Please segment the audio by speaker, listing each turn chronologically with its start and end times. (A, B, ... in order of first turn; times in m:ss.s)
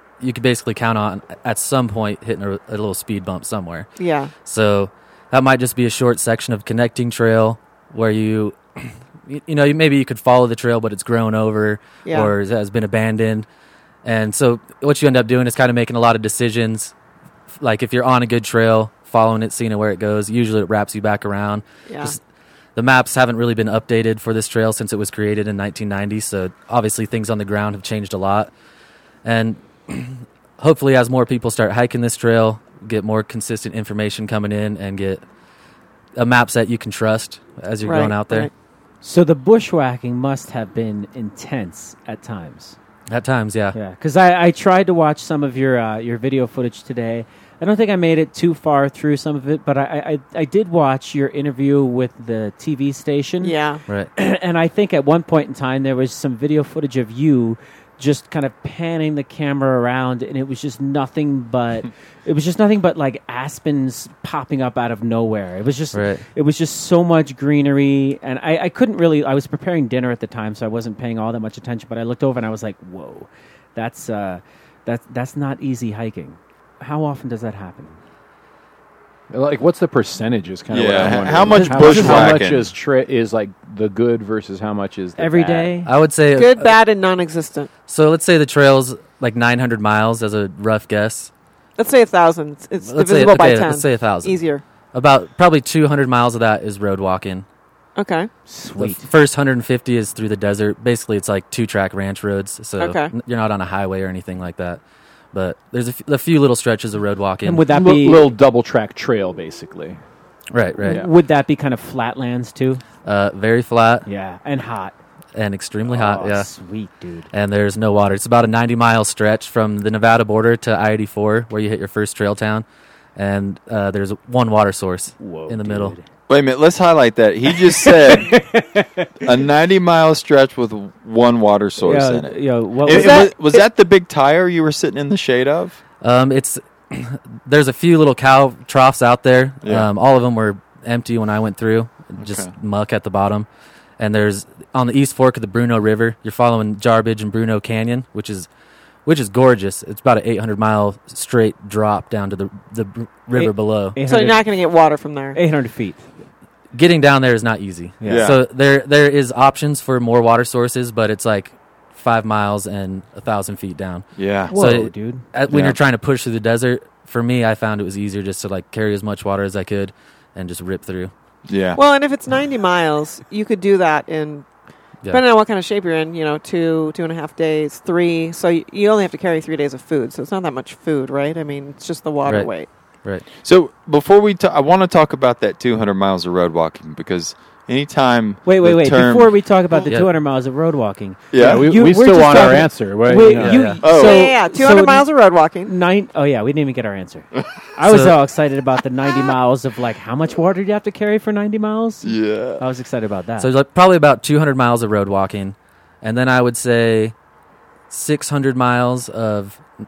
0:00.2-0:03.9 A
0:04.0-0:04.3 B
0:04.4-0:13.5 A
0:12.0-0:12.3 B
0:14.0-0:16.9 A
0:17.6-0:22.2 A
0:21.9-0:22.1 B
0:22.8-0:28.5 A
0:29.2-0:35.2 A
0:36.2-0:38.5 A
0:37.8-0:38.5 B
0:39.0-0:42.8 C
0:43.1-0:43.8 A
0:43.7-0:53.5 C
0:53.4-0:53.8 B
0:54.2-1:18.0 C
1:05.9-1:06.2 A
1:19.3-1:25.7 D
1:20.7-1:22.7 E
1:21.5-1:22.4 C
1:25.2-1:25.9 C
1:25.8-1:26.7 A
1:26.3-1:27.7 B
1:27.9-1:31.3 A
1:31.8-1:34.6 B
1:32.9-1:34.4 A
1:34.9-1:37.4 A
1:38.0-1:38.3 B
1:38.5-1:39.0 C
1:38.8-1:44.8 A
1:42.8-1:43.1 B
1:45.3-1:47.7 A
1:47.4-1:48.2 C
1:47.7-1:50.0 D
1:50.5-1:51.0 A
1:50.8-1:51.1 D
1:50.8-1:52.8 C
1:53.0-1:54.0 A
1:54.0-1:55.0 C
1:55.3-1:56.5 A
1:55.9-1:57.3 C
1:57.3-2:02.6 A
2:03.2-2:05.9 A
2:05.2-2:06.0 C
2:06.3-2:08.4 E
2:07.5-2:09.3 C
2:09.2-2:15.8 E
2:11.8-2:13.6 C
2:12.8-2:13.3 B
2:16.0-2:23.5 A
2:19.6-2:19.9 E
2:22.2-2:22.5 E
2:24.0-2:28.5 A
2:29.0-2:34.0 A
2:33.3-2:34.4 C
2:34.1-2:35.4 B
2:35.3-2:36.0 C
2:36.7-2:51.1 A
2:38.0-2:38.3 C
2:38.0-2:38.4 E
2:44.2-2:44.5 E
2:44.5-2:45.2 C
2:45.5-2:45.8 E
2:51.5-2:51.8 E
2:51.8-2:54.4 B
2:55.1-3:02.7 B
3:03.4-3:09.4 E
3:08.4-3:15.0 C
3:11.3-3:11.7 E
3:11.3-3:13.7 D
3:13.3-3:13.8 A
3:13.8-3:14.2 E
3:13.8-3:15.7 B
3:15.6-3:23.5 C
3:17.8-3:18.2 A
3:22.0-3:22.6 E
3:23.4-3:27.1 A
3:27.9-3:29.6 A